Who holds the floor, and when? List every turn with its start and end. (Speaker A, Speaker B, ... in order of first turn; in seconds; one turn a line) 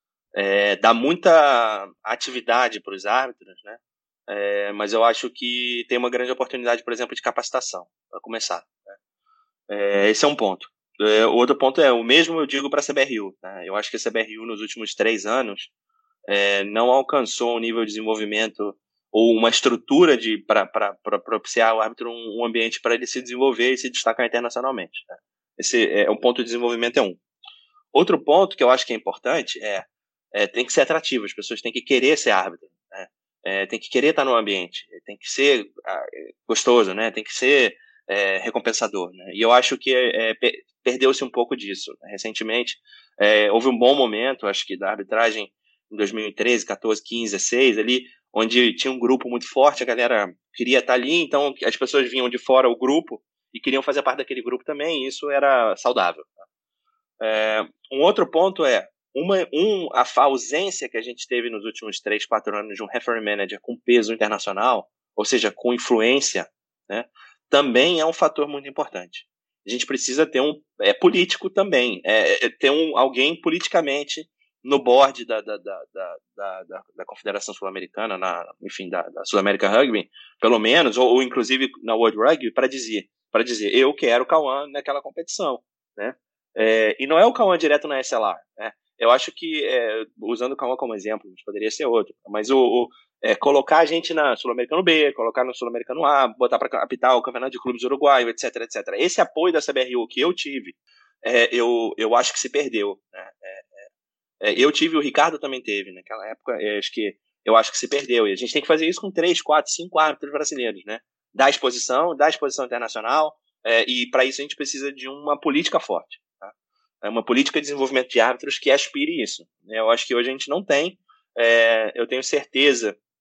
Speaker A: 0.3-8.9
Speaker A: 9.7-15.7
Speaker A: 16.3-27.2
Speaker A: 27.9-56.3
Speaker A: 57.2-103.9
Speaker A: 104.4-123.0